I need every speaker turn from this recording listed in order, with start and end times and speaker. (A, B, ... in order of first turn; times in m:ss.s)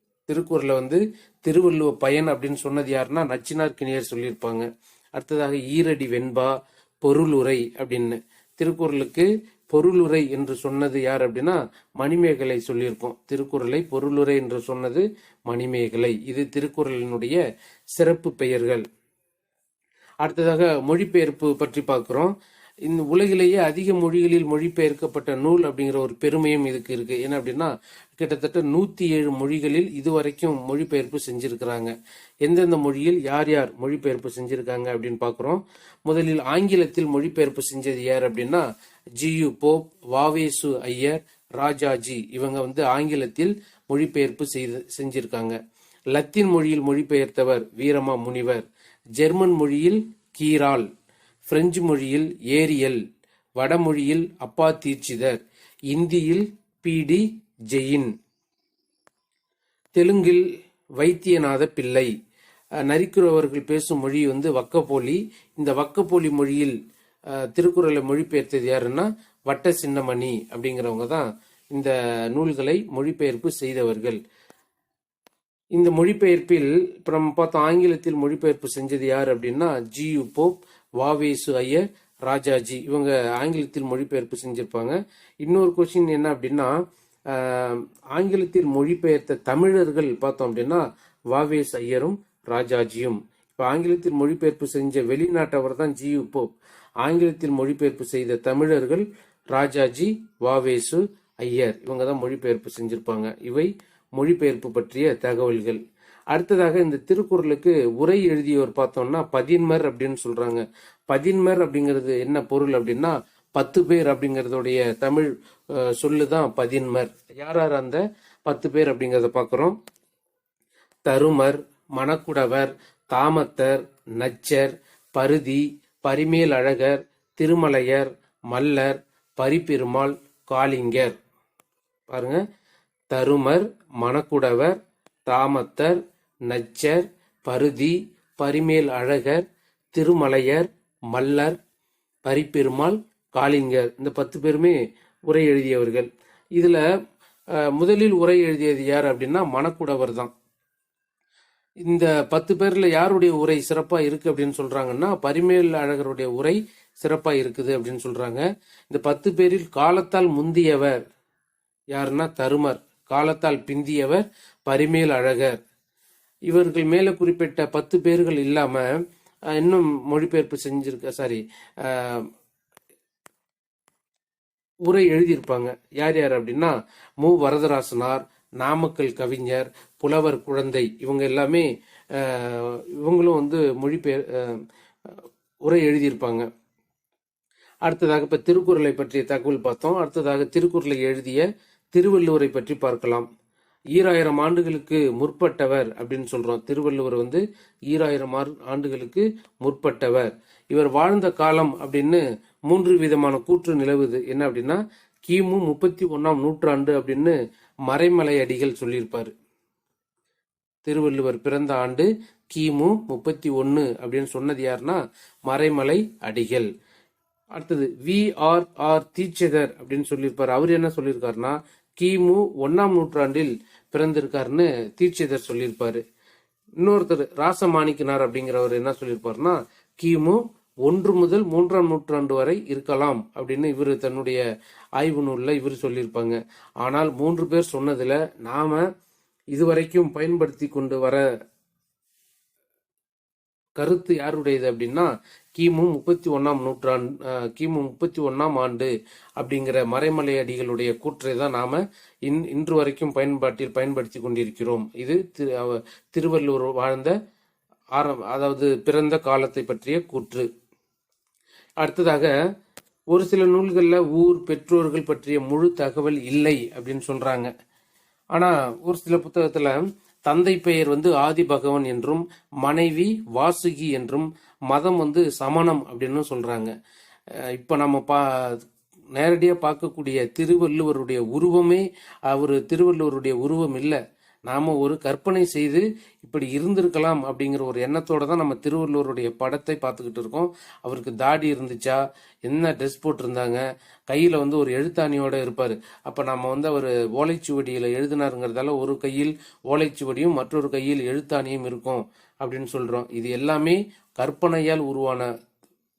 0:00.3-0:17.4 A
0:17.9-0:18.8 A
0:20.2-0:22.3 A
0:22.8-0:31.9 A
0:32.4-0:38.6 A
0:39.2-0:45.6 A
0:46.1-0:48.6 A
0:49.2-0:50.9 A
0:51.4-0:53.0 A
0:53.6-0:58.1 A
1:00.0-1:00.4 A
1:01.0-1:02.1 A
1:02.9-1:06.8 A
1:07.3-1:14.2 A
1:15.7-1:26.7 A
1:27.3-1:36.5 A
1:37.0-1:59.7 A
2:01.0-2:11.2 A
2:12.1-2:12.4 A
2:13.1-2:14.8 A
2:15.3-2:19.4 A
2:19.9-2:21.6 A
2:22.2-2:24.8 A
2:25.3-2:26.8 A
2:27.6-2:30.3 A
2:31.8-2:40.9 A
2:41.9-2:45.6 A
2:46.5-2:48.8 A
2:49.6-2:52.3 A
2:54.8-3:06.4 A
3:07.8-3:13.3 A
3:13.9-3:27.3 A
3:27.9-3:29.3 A
3:30.8-3:36.7 A
3:37.5-3:46.0 A
3:46.8-3:54.4 A
3:55.0-3:58.8 A
3:59.5-4:01.2 A
4:03.8-4:17.1 A
4:17.9-4:20.5 A
4:21.8-4:22.3 A
4:23.1-4:27.5 A
4:28.3-4:36.7 A
4:37.4-4:38.6 A
4:39.1-5:05.3 A